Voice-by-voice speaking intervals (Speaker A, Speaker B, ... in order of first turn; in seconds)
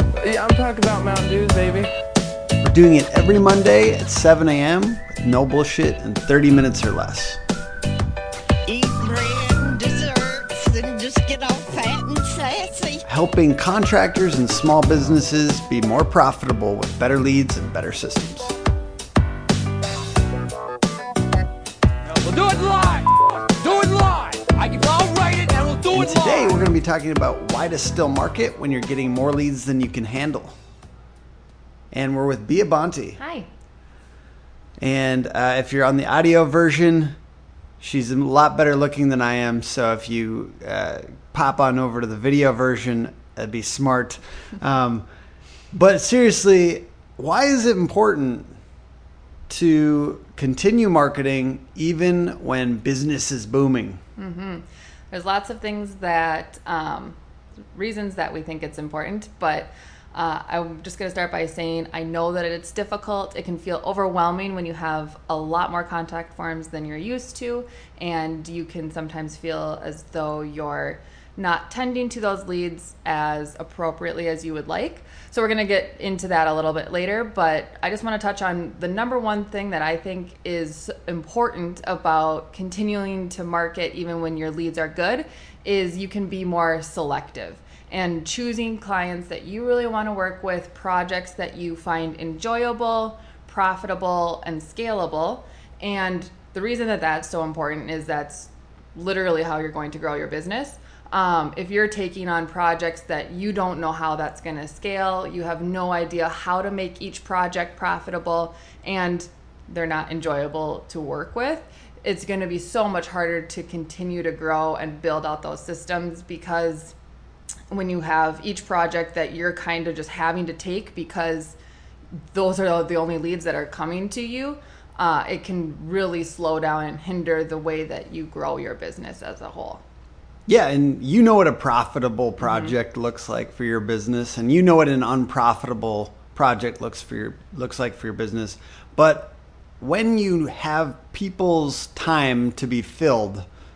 Speaker A: 0.2-1.9, 22.2-26.4
Speaker B: 2.6-7.4, 13.1-18.6, 25.9-30.6, 31.9-33.2, 34.8-37.2, 37.8-45.1, 45.7-48.6, 49.5-54.0, 130.5-143.5
Speaker C: 8.7-13.0
Speaker D: 33.2-33.5, 54.2-57.2, 57.7-117.0, 117.7-121.6, 122.3-129.8, 132.4-132.7